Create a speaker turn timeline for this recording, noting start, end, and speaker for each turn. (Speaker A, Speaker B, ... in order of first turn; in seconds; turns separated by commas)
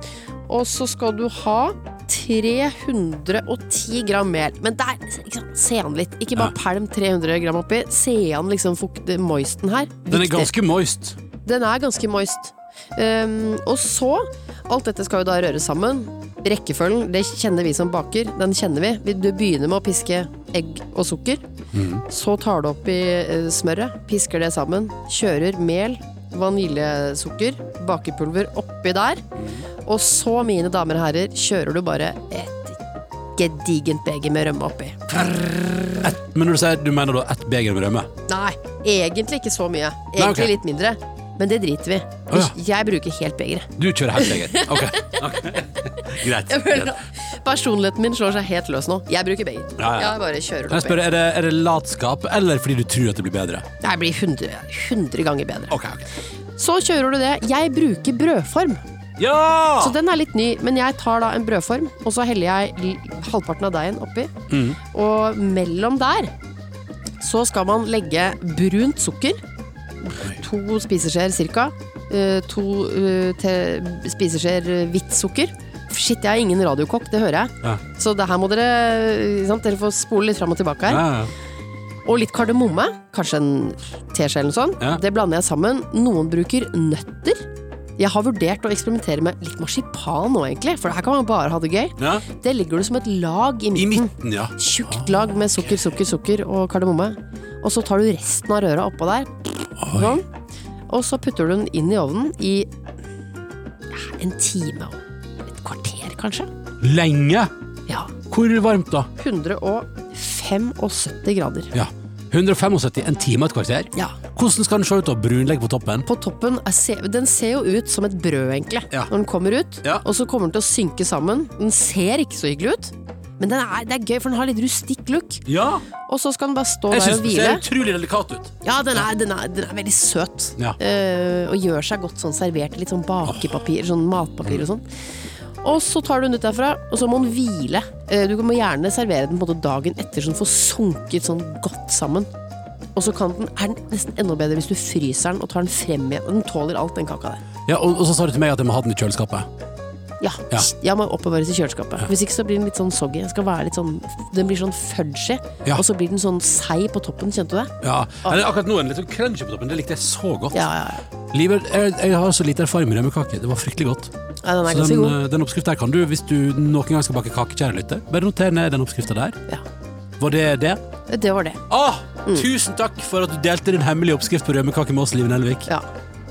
Speaker A: 0.5-10.5, Speaker B: 10.1-11.2, Speaker A: 11.4-21.4, Speaker B: 21.7-22.0, Speaker A: 22.1-29.3, Speaker B: 29.4-29.6, Speaker A: 29.8-32.8, Speaker A: 33.4-35.9, Speaker B: 36.0-38.1, Speaker A: 38.3-51.0, Speaker B: 40.2-40.5, Speaker B: 42.3-42.5, Speaker B: 43.8-47.0, Speaker B: 49.8-53.7, Speaker A: 53.8-55.8, Speaker B: 55.7-56.1, Speaker A: 56.6-58.8, Speaker B: 59.2-60.0, Speaker A: 59.8-64.3, Speaker B: 64.5-64.8, Speaker A: 64.8-66.3, Speaker A: 67.2-69.4, Speaker A: 70.0-81.0, Speaker B: 80.9-81.3, Speaker A: 82.0-100.2, Speaker B: 92.0-92.2, Speaker B: 93.7-95.7, Speaker B: 99.8-100.2, Speaker A: 100.9-102.7, Speaker A: 103.9-106.5, Speaker B: 106.8-107.5, Speaker A: 107.9-108.1, Speaker B: 108.2-109.1, Speaker A: 109.2-111.7, Speaker B: 111.7-116.0, Speaker A: 116.0-125.5, Speaker B: 125.5-125.8, Speaker A: 126.0-127.6, Speaker B: 126.9-129.1, Speaker A: 128.6-134.9, Speaker B: 133.3-133.6, Speaker A: 135.6-142.3, Speaker A: 142.9-147.4, Speaker B: 147.7-149.5, Speaker A: 150.2-158.4, Speaker B: 157.8-160.7, Speaker A: 160.5-161.1, Speaker B: 161.3-164.1, Speaker A: 164.4-165.2, Speaker B: 164.7-169.4, Speaker B: 170.2-170.8, Speaker A: 171.1-171.6, Speaker B: 171.7-175.7